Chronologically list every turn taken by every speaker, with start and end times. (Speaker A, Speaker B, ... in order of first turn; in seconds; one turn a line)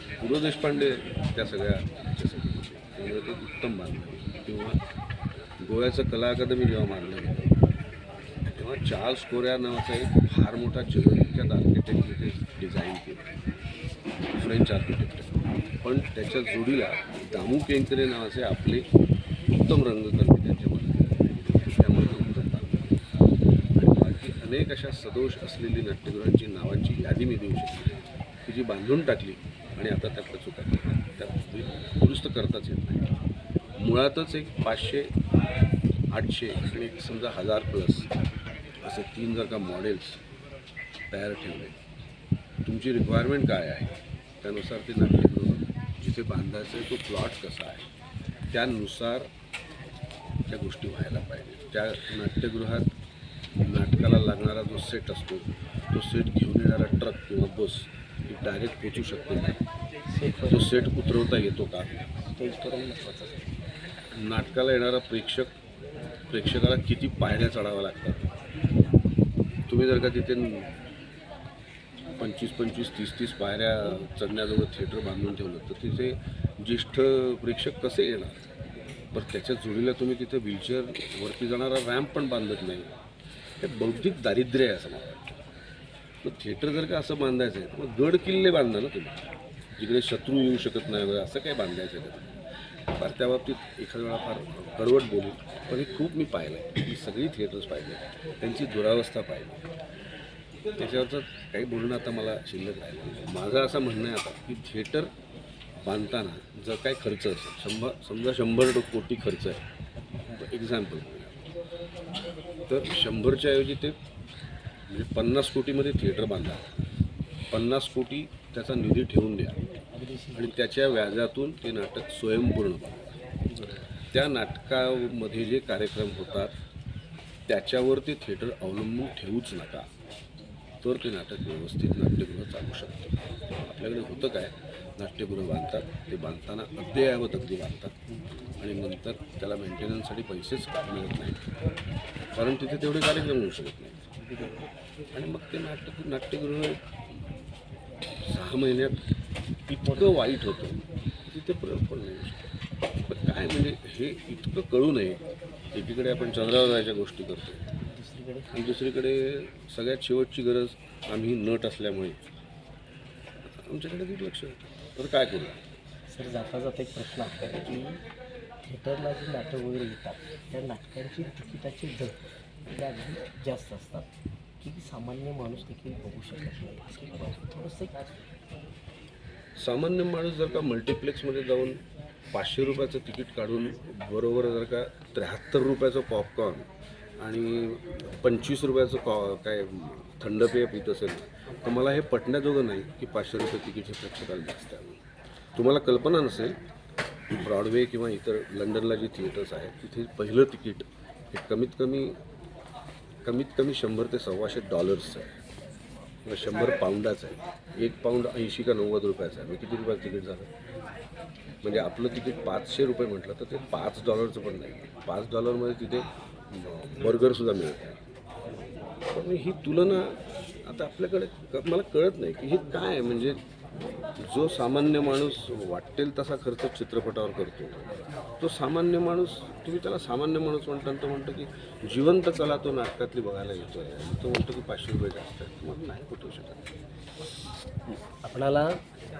Speaker A: 0.2-4.8
Speaker A: 5.6-7.6
Speaker A: 8.5-13.4
Speaker A: 14.3-18.9
Speaker A: 19.5-22.9
Speaker A: 23.8-33.2
Speaker A: 33.8-35.1
Speaker A: 36.1-38.1
Speaker A: 38.8-40.2
Speaker A: 41.1-41.8
Speaker A: 42.6-47.9
Speaker A: 48.5-49.3
Speaker A: 50.5-52.9
Speaker A: 53.6-59.6
Speaker B: 60.1-60.9
Speaker A: 60.5-62.0
Speaker B: 62.3-63.5
Speaker A: 64.1-65.5
Speaker A: 66.3-68.3
Speaker A: 69.7-70.8
Speaker A: 72.2-78.4
Speaker A: 79.1-83.0
Speaker A: 83.6-85.4
Speaker A: 86.2-92.3
Speaker A: 92.9-99.6
Speaker A: 100.8-105.1
Speaker A: 105.8-109.6
Speaker B: 110.0-110.4
Speaker A: 110.4-111.5
Speaker A: 112.7-114.0
Speaker A: 114.9-116.7
Speaker A: 117.5-119.6
Speaker B: 119.9-120.5
Speaker A: 120.3-123.1
Speaker B: 123.5-123.8
Speaker A: 124.1-126.5
Speaker A: 127.5-129.9
Speaker A: 130.8-137.9
Speaker A: 138.6-141.5
Speaker A: 142.3-144.0
Speaker B: 144.1-144.7
Speaker A: 145.1-147.2
Speaker A: 148.3-149.0
Speaker A: 149.7-152.5
Speaker A: 153.1-155.2
Speaker A: 155.7-157.6
Speaker B: 157.8-158.5
Speaker A: 158.5-162.2
Speaker A: 163.6-165.6
Speaker B: 166.1-168.0
Speaker B: 168.6-172.2
Speaker B: 172.7-174.1
Speaker B: 174.6-178.0
Speaker A: 179.6-195.0
Speaker A: 195.5-196.6
Speaker A: 197.3-202.2
Speaker A: 203.2-205.3
Speaker A: 206.2-210.5
Speaker A: 211.6-218.0
Speaker A: 219.1-223.4
Speaker A: 224.2-236.7
Speaker B: 237.9-238.8